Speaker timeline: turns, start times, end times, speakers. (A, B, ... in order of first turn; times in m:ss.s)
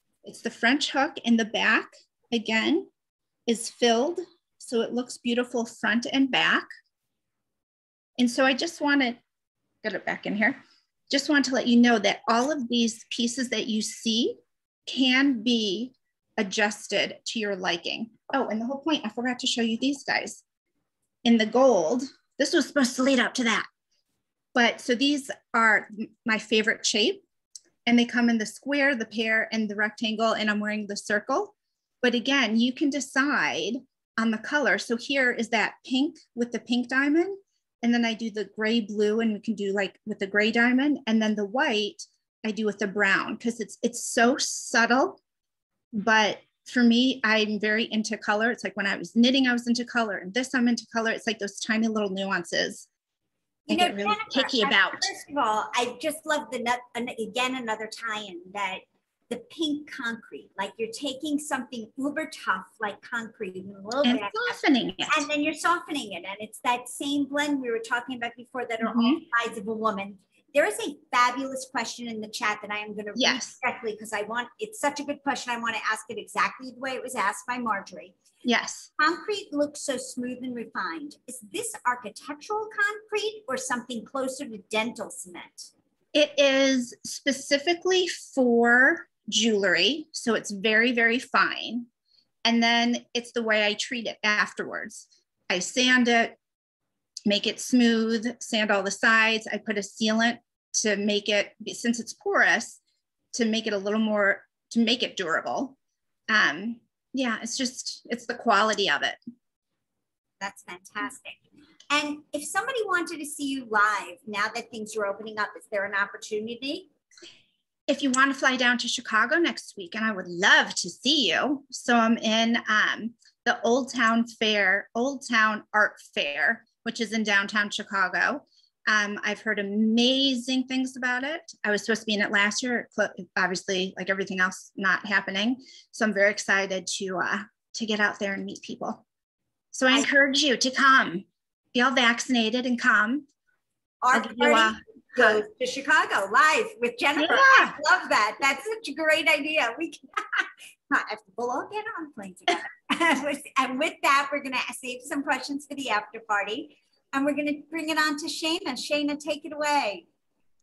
0:00.2-0:02.9 A
0:03.4-0:06.7 A
0:08.2-0:09.2 A
0:09.8-0:20.4 A
0:21.2-0:23.7 A
0:24.5-0:27.2 A
0:27.9-0:45.2 A
0:45.9-0:52.9 A
0:53.7-0:55.1 A
0:53.7-1:18.1 B
1:04.0-1:05.3 A
1:08.8-1:09.2 A
1:13.2-1:13.6 A
1:18.4-1:18.9 A
1:19.0-1:25.7 B
1:26.1-1:31.9 A
1:32.4-1:36.4 A
1:37.2-1:42.8 A
1:43.3-1:45.8 A
1:46.3-1:49.2 A
1:50.4-1:56.9 B
1:57.9-2:19.0 A
2:19.7-2:23.3 A
2:24.0-2:40.0 B
2:24.1-2:25.4 A
2:27.2-2:27.7 A